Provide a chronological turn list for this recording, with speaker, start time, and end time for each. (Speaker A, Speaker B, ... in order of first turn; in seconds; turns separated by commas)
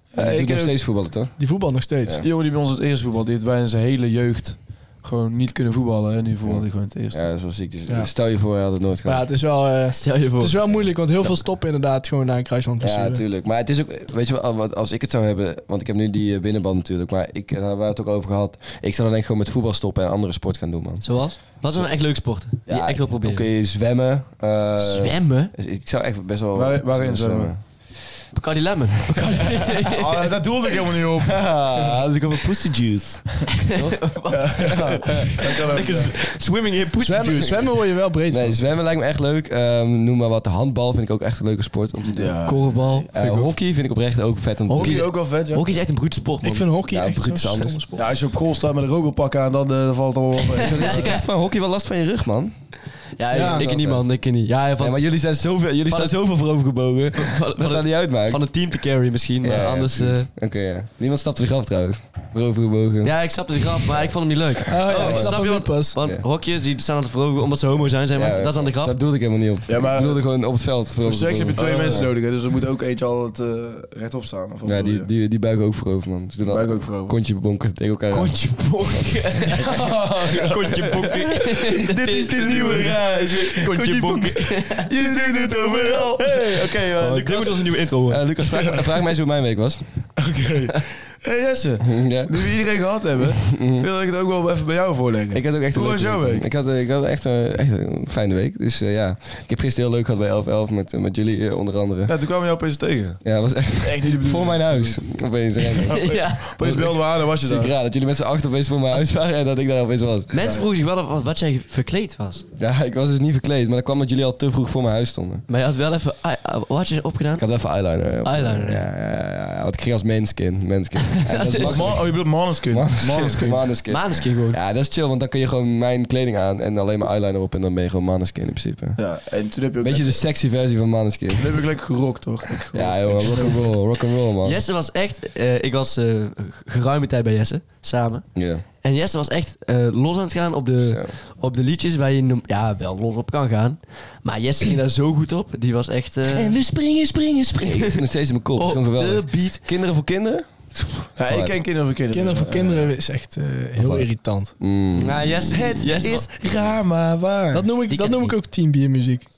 Speaker A: 0.1-0.7, Speaker B: 0.1-1.3, Speaker C: 1.4-2.2, Speaker A: 2.2-7.2, Speaker B: 6.4-9.3, Speaker C: 9.1-13.2, Speaker D: 9.9-10.6, Speaker B: 12.8-21.1, Speaker D: 21.0-23.5, Speaker B: 22.7-27.6, Speaker D: 24.8-25.5, Speaker A: 26.6-27.5, Speaker D: 28.3-30.4, Speaker A: 29.9-32.0, Speaker B: 31.3-34.1, Speaker D: 33.6-37.7, Speaker A: 34.3-36.1, Speaker C: 37.0-38.6, Speaker B: 38.3-42.3, Speaker A: 42.1-43.1, Speaker D: 42.5-43.6, Speaker B: 43.1-45.1, Speaker D: 44.7-46.7, Speaker A: 44.8-45.6, Speaker C: 46.4-48.1, Speaker B: 46.9-47.8, Speaker A: 48.0-51.2, Speaker D: 50.5-51.2, Speaker B: 50.6-52.5, Speaker D: 53.2-55.0, Speaker C: 53.3-53.7, Speaker B: 53.4-54.1, Speaker B: 54.8-58.4, Speaker D: 55.9-56.1, Speaker D: 57.2-60.3, Speaker B: 59.4-63.1, Speaker D: 63.0-69.0, Speaker C: 64.7-66.0, Speaker B: 64.8-65.4, Speaker B: 68.1-72.1, Speaker A: 69.7-70.2, Speaker A: 71.0-75.1, Speaker D: 71.6-72.1, Speaker B: 74.6-79.8, Speaker A: 76.5-77.2, Speaker D: 78.1-84.9, Speaker A: 79.6-81.0, Speaker B: 80.5-81.2, Speaker B: 81.8-89.8, Speaker A: 82.4-83.0, Speaker A: 84.9-86.7, Speaker D: 87.0-88.2, Speaker A: 88.5-88.8, Speaker A: 90.2-96.5, Speaker B: 91.8-92.6, Speaker B: 93.5-93.9, Speaker B: 95.3-102.1, Speaker A: 102.1-103.2, Speaker B: 103.2-110.4, Speaker A: 103.8-105.0, Speaker A: 105.7-107.7, Speaker D: 105.9-106.6, Speaker D: 110.3-112.5, Speaker A: 110.4-110.7, Speaker B: 112.6-115.5, Speaker D: 115.5-117.5, Speaker B: 117.4-129.0, Speaker D: 118.2-118.8, Speaker D: 121.1-122.0, Speaker A: 121.7-123.7, Speaker D: 123.9-124.6, Speaker A: 129.0-130.2, Speaker B: 129.8-131.6, Speaker A: 131.3-133.6, Speaker B: 132.7-134.6, Speaker D: 134.4-138.3, Speaker B: 138.3-138.6, Speaker D: 138.8-146.6, Speaker B: 140.8-141.1, Speaker B: 146.3-151.6, Speaker D: 147.6-148.1, Speaker D: 148.6-149.6, Speaker A: 151.2-152.9, Speaker C: 152.1-154.5, Speaker B: 153.8-155.5, Speaker D: 154.9-156.3, Speaker A: 155.5-157.7, Speaker C: 157.5-159.3, Speaker D: 157.9-158.3